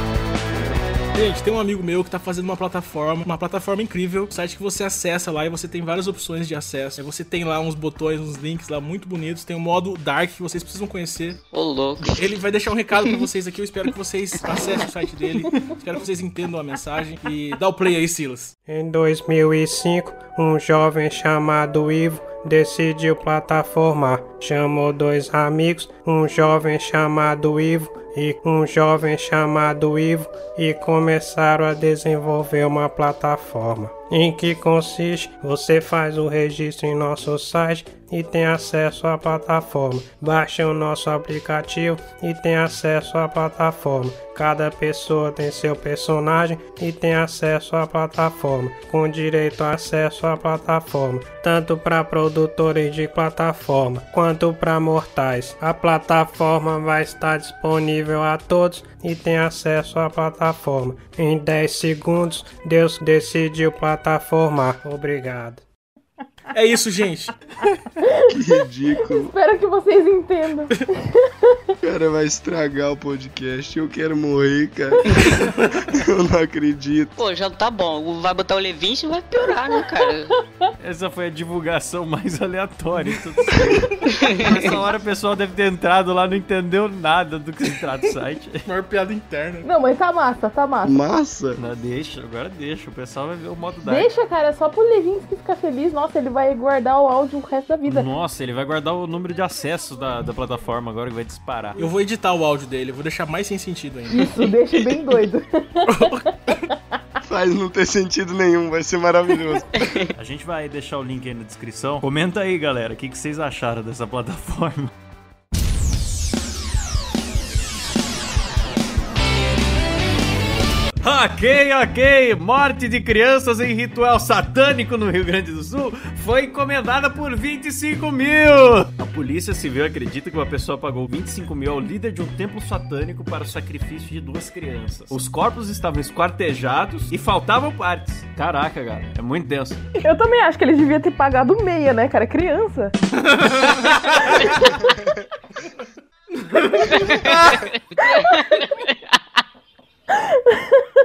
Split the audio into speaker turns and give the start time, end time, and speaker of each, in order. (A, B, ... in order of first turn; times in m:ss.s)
0:01.1-0:11.4 A
0:11.5-0:12.2 B
0:12.1-0:18.5 A
0:18.7-1:05.6 C
1:06.5-1:07.3 A
1:08.0-1:08.3 D
1:08.3-1:09.3 E
1:09.0-1:11.5 D
1:11.8-1:15.1 E
1:15.9-1:17.1 E
1:17.2-1:20.3 B
1:20.8-1:28.7 F
1:23.4-1:24.7 A
1:24.1-1:24.5 B
1:28.6-1:29.6 A
1:29.6-1:31.0 D
1:30.8-1:31.6 E
1:31.6-1:34.1 F
1:33.8-1:38.1 D
1:37.8-1:41.8 F
1:41.8-1:44.8 A
1:44.1-1:46.5 D
1:45.8-1:46.6 A
1:47.2-1:49.7 E
1:50.1-1:54.9 F
2:01.0-2:19.8 F
2:20.0-2:22.9 D
2:23.4-2:24.7 F
2:24.5-2:24.8 D
2:26.7-2:27.6 F
2:28.1-2:28.6 D
2:28.1-2:28.6 B
2:30.1-2:30.8 D